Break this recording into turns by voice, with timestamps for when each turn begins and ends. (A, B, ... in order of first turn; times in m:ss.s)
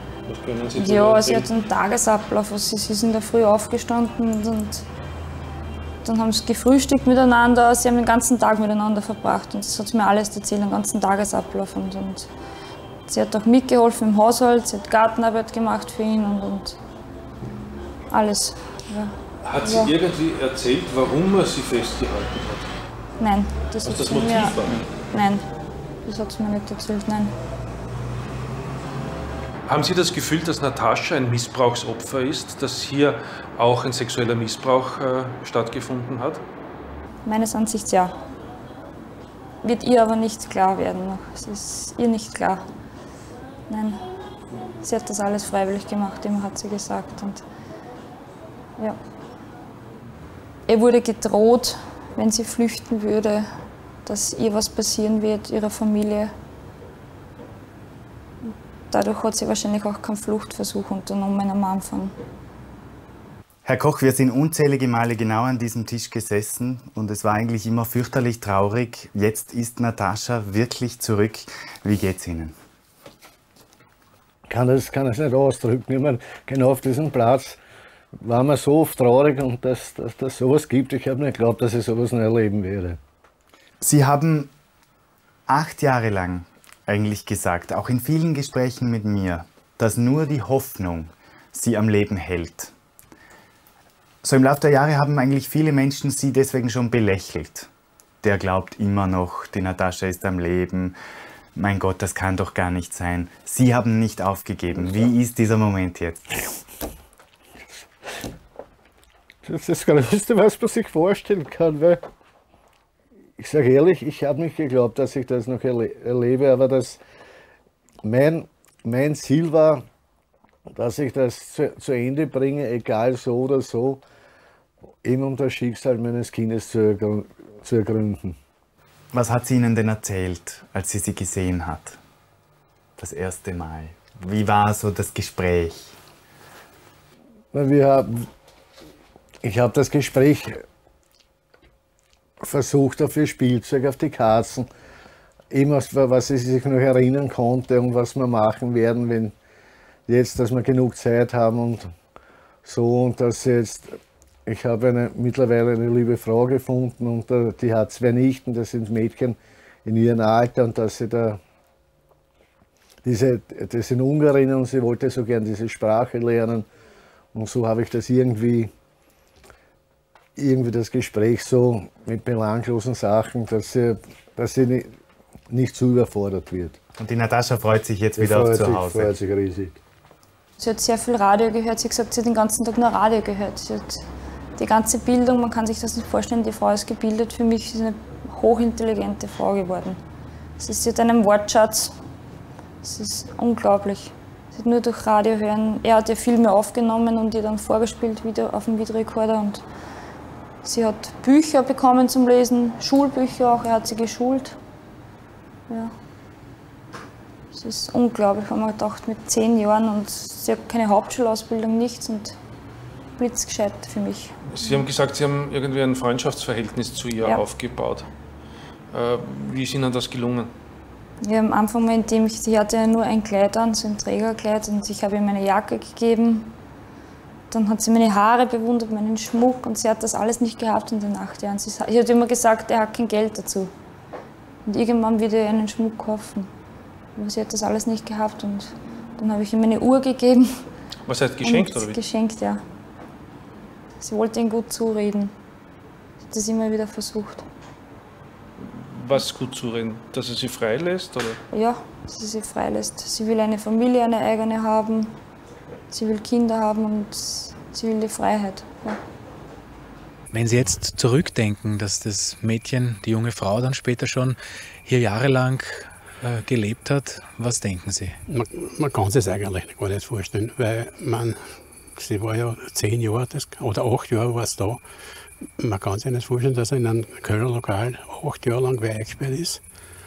0:00.3-0:01.5 A
0:00.8-0:04.9 B
0:06.0-0:12.3 B
0:13.1-0:16.8 B
0:18.1-0:19.9 B
0:19.4-0:22.7 A
0:23.2-0:25.5 B
0:23.8-0:24.9 A
0:26.1-0:27.3 B
0:29.7-0:36.4 A
0:37.3-0:38.1 B
0:39.6-0:42.6 B
0:43.7-0:44.0 B
0:44.8-0:47.4 B
0:50.7-0:53.5 B
0:54.1-0:56.3 B
0:58.9-1:02.1 B
1:03.6-1:12.6 C
1:14.5-1:17.6 D
1:18.2-1:23.0 D
1:23.8-1:24.5 C
1:25.5-1:32.7 C
1:34.2-1:37.7 C
1:38.2-1:41.0 C
1:41.6-1:46.4 C
1:49.4-1:52.0 D
1:53.4-1:57.0 D
1:58.0-1:59.8 D
2:00.7-2:04.0 D
2:05.0-2:08.4 D
2:09.1-2:12.0 C
2:13.0-2:16.0 C
2:17.5-2:18.3 D
2:19.4-2:20.6 D
2:22.4-2:24.7 D
2:25.5-2:29.4 D
2:30.1-2:31.9 D
2:32.6-2:41.4 D
2:43.0-2:46.7 D
2:47.3-2:48.7 D
2:50.4-2:54.9 D
2:55.5-2:56.8 D
2:57.0-2:59.1 C
2:58.2-2:59.8 D
3:00.6-3:04.1 B
3:04.6-3:10.0 B
3:10.6-3:12.0 B
3:12.8-3:19.6 B
3:20.6-3:24.6 B
3:27.5-3:32.4 B
3:33.2-3:34.8 B
3:34.5-3:38.1 A
3:38.9-3:40.5 A
3:41.2-3:46.5 B
3:47.5-3:53.7 B
3:54.7-3:56.5 B
3:57.2-4:00.6 B
4:01.1-4:02.0 A
4:01.4-4:02.6 B
4:04.0-4:05.3 B
4:06.3-4:07.4 B
4:08.6-4:11.4 A
4:11.5-4:15.1 B
4:15.9-4:19.0 B
4:20.3-4:24.4 E
4:24.9-4:28.1 E
4:28.3-4:31.4 F
4:32.0-4:34.8 F
4:35.6-4:39.6 F